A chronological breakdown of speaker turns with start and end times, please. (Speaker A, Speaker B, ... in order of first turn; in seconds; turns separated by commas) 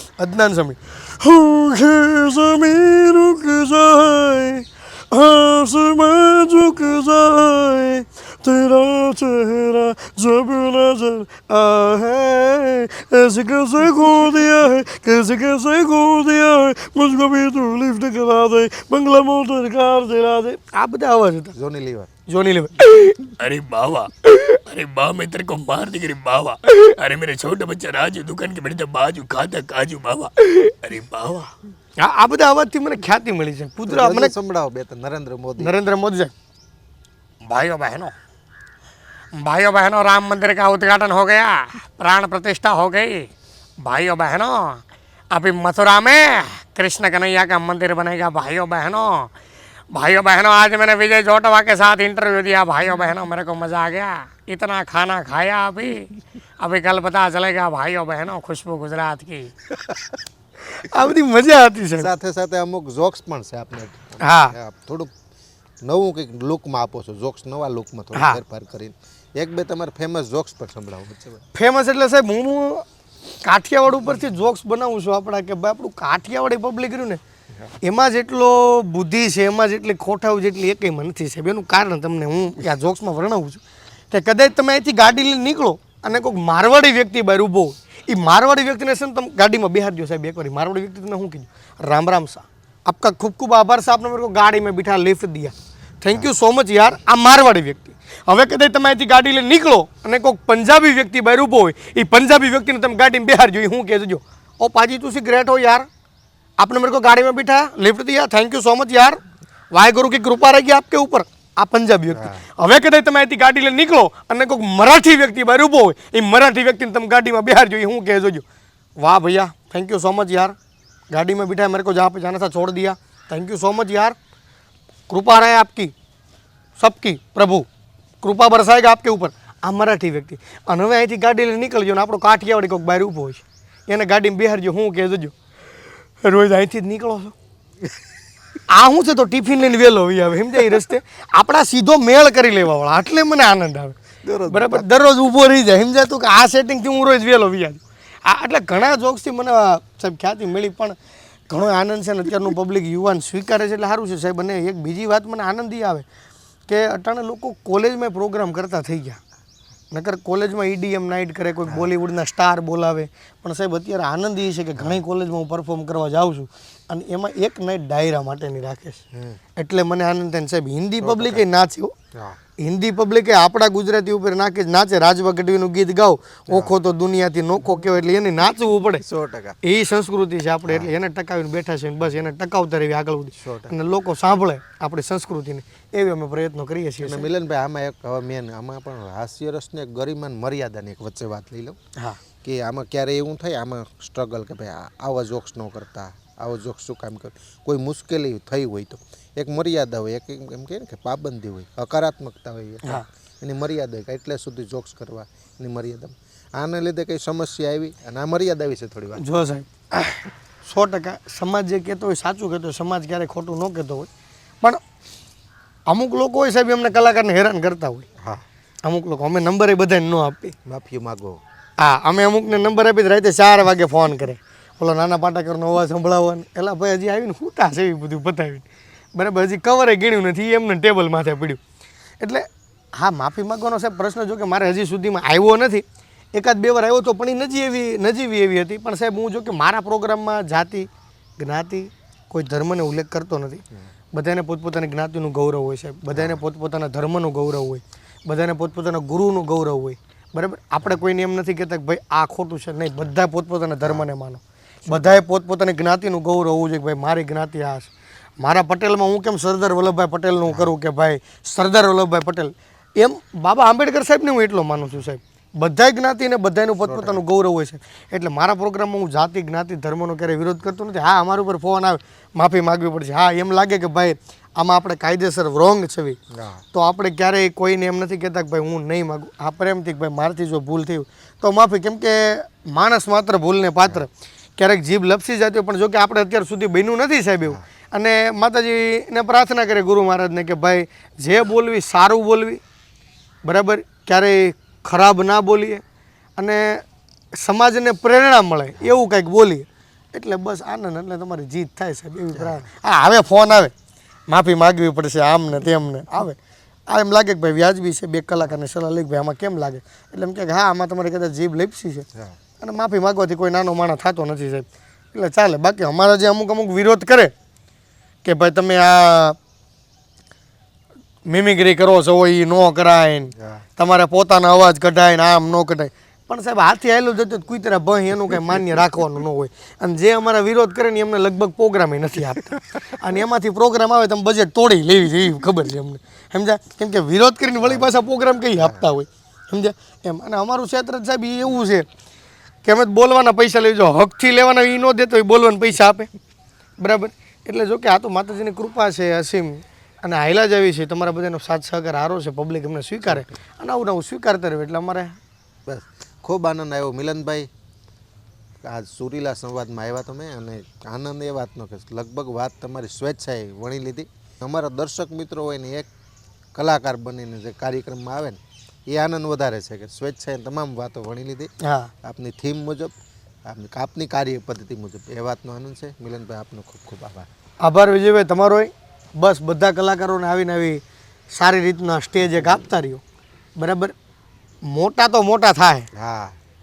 Speaker A: 0.2-21.5, Speaker B: 21.5-22.1, Speaker A: 22.3-23.2, Speaker C: 23.4-31.5, Speaker A: 32.0-34.3, Speaker B: 33.9-35.7, Speaker A: 35.6-36.3, Speaker A: 37.4-38.1, Speaker A: 39.4-44.8, Speaker A: 45.3-49.3, Speaker A: 49.9-59.5, Speaker A: 60.7-62.1, Speaker B: 62.0-65.1, Speaker A: 64.2-64.5, Speaker B: 65.8-71.4, Speaker A: 68.1-68.4, Speaker A: 71.5-72.8, Speaker A: 73.4-77.2, Speaker A: 77.8-105.9, Speaker A: 106.6-109.2, Speaker A: 109.7-118.4, Speaker B: 112.1-112.4, Speaker A: 119.0-120.5, Speaker A: 121.1-124.2, Speaker A: 125.1-125.9, Speaker A: 126.8-127.7, Speaker A: 128.2-135.3, Speaker A: 136.2-137.3, Speaker A: 138.7-151.0, Speaker B: 144.2-144.9, Speaker A: 151.5-156.1, Speaker A: 156.7-159.2, Speaker A: 159.9-169.0, Speaker B: 169.1-169.4, Speaker A: 169.6-171.9, Speaker B: 171.0-171.4, Speaker B: 172.1-172.4, Speaker A: 172.6-179.0, Speaker B: 179.0-179.6, Speaker A: 179.6-187.3, Speaker B: 180.7-180.9, Speaker B: 183.3-183.7, Speaker B: 187.0-191.8, Speaker B: 192.4-209.2, Speaker A: 209.2-214.1, Speaker A: 215.9-218.1, Speaker A: 218.8-220.5, Speaker B: 220.7-221.4, Speaker A: 221.8-231.6, Speaker A: 232.2-243.6, Speaker A: 244.1-276.2, Speaker B: 246.1-246.4, Speaker B: 254.9-255.2, Speaker B: 260.5-260.7, Speaker B: 266.8-267.2, Speaker B: 276.3-276.6, Speaker A: 276.7-292.6, Speaker A: 293.4-295.8, Speaker A: 296.4-296.8, Speaker A: 297.4-303.7, Speaker B: 302.3-302.6, Speaker A: 304.3-312.1, Speaker A: 312.6-317.3, Speaker A: 318.2-319.4, Speaker A: 321.2-341.9, Speaker B: 337.6-337.9, Speaker B: 338.6-338.9, Speaker A: 342.6-346.1, Speaker A: 346.8-355.2, Speaker B: 355.7-357.5, Speaker B: 358.6-365.9, Speaker B: 366.5-371.5, Speaker A: 371.6-371.9, Speaker B: 372.0-372.9, Speaker B: 373.4-377.3, Speaker A: 377.6-380.8, Speaker A: 381.3-383.0, Speaker A: 383.6-383.9, Speaker A: 384.6-385.9, Speaker B: 385.9-386.4